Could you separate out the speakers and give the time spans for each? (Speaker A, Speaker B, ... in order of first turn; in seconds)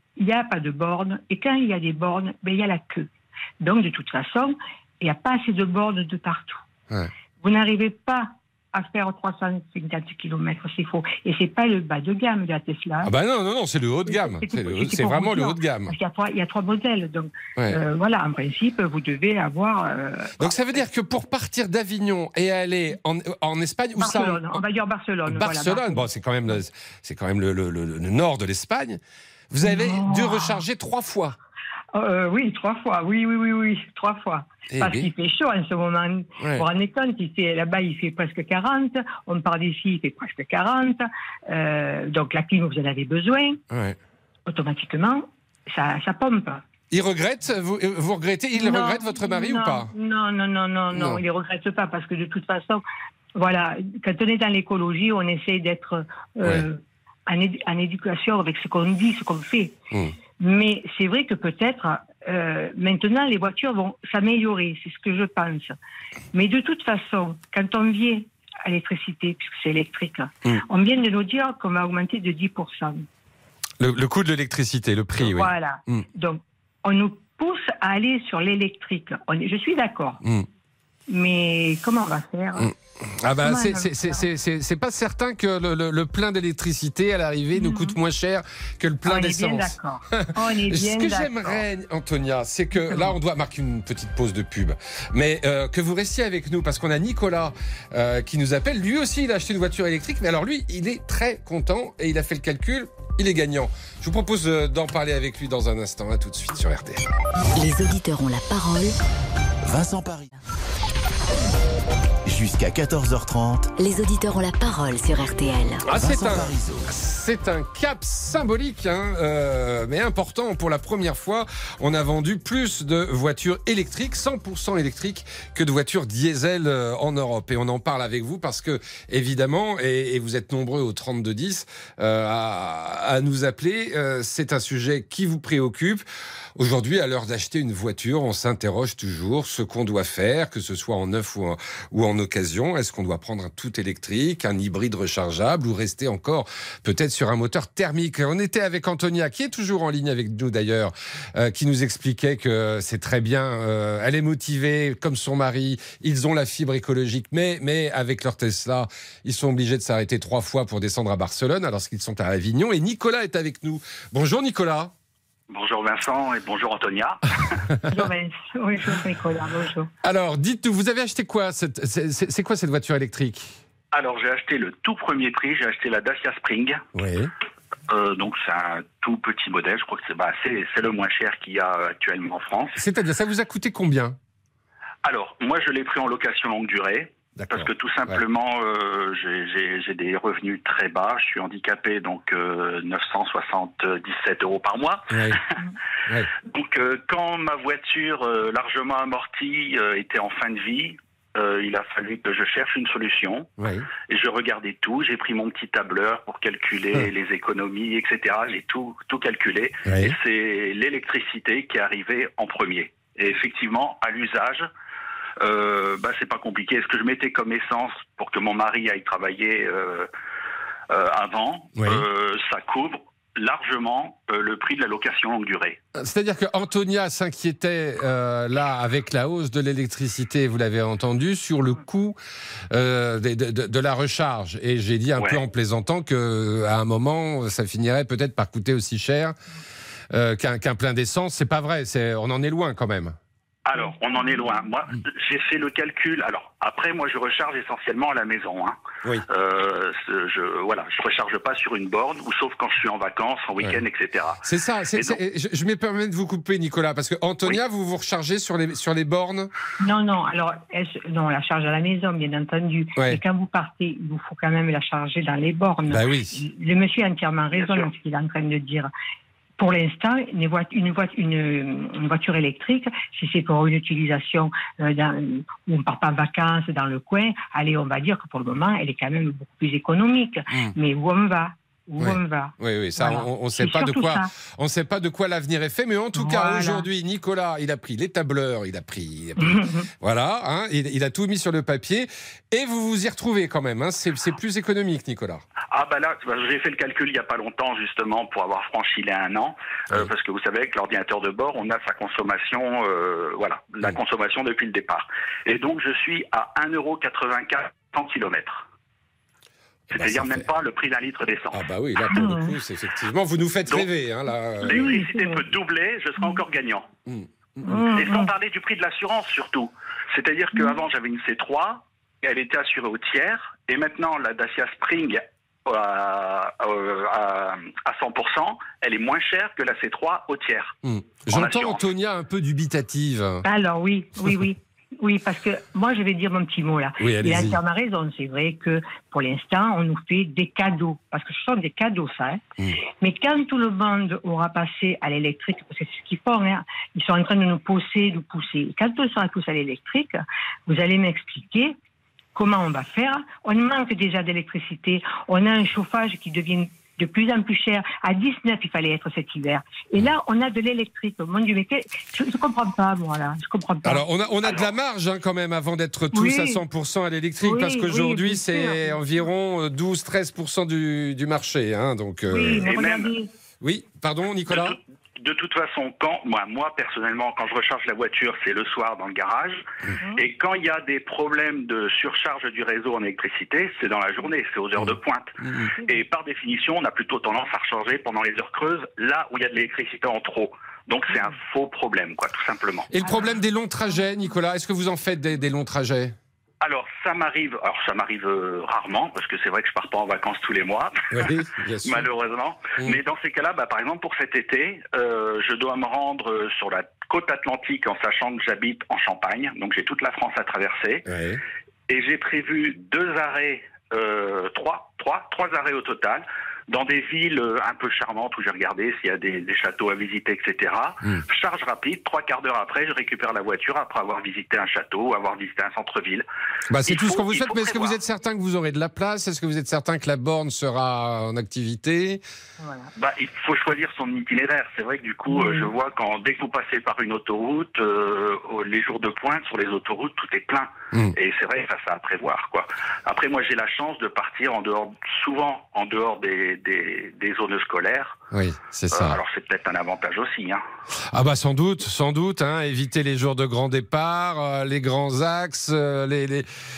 Speaker A: 0.2-3.1, 3.6-6.6, 7.4-13.1, 14.1-20.8, 24.0-26.6, 29.6-30.6, 31.9-43.6, 44.5-46.6, 48.5-52.8, 53.4-59.7, 60.4-65.7, 66.3-73.0, 75.2-80.2, 81.1-82.7, 83.4-84.2, 87.5-88.0, 89.0-91.6, 92.7-93.2, 167.9-169.9, 259.8-268.9, 269.6-284.3, 286.1-286.9, 289.4-289.9, 312.1-312.6, 314.6-315.4, 317.6-318.3, 333.4-342.4, 343.0-351.8, 352.3-364.1, 366.1-366.6, 367.4-369.3, 372.3-373.3, 432.6-432.9, 435.3-435.7
Speaker B: 13.0-15.9, 20.4-24.6, 25.2-29.0, 29.5-31.4, 34.7-35.1, 36.4-36.7, 43.7-44.0, 46.9-49.9, 50.9-51.2, 73.8-76.0, 82.6-107.0, 115.8-136.0, 136.6-164.9, 170.0-173.6, 176.9-177.3, 182.8-184.2, 187.4-188.2, 195.1-195.4, 203.6-203.9, 209.8-210.2, 221.8-222.0, 225.9-232.2, 232.7-239.3, 240.1-243.2, 254.4-259.5, 265.9-266.4, 282.0-295.4, 309.9-310.4, 311.5-314.9, 317.1-317.8, 330.8-333.4, 337.0-337.6, 363.8-372.8, 373.6-374.8, 384.8-385.7, 392.9-396.1, 401.1-402.1, 411.1-411.4, 426.7-432.2, 448.3-449.2, 451.1-456.5
Speaker C: 107.5-109.0, 113.8-115.8
Speaker D: 109.6-110.3, 112.2-113.7, 115.9-116.9
Speaker E: 165.5-167.6, 173.9-176.8, 177.9-182.8, 185.0-195.3, 196.4-214.7, 215.4-220.1, 220.9-225.8, 243.7-248.8, 249.3-254.4, 267.5-267.9, 295.7-308.6, 309.9-311.6, 314.6-316.9, 317.9-330.7, 331.3-331.9, 364.4-364.7, 372.6-373.1, 374.5-392.9, 396.6-401.3, 401.8-411.1, 411.9-426.2, 426.9-428.0, 433.0-448.2, 448.9-450.6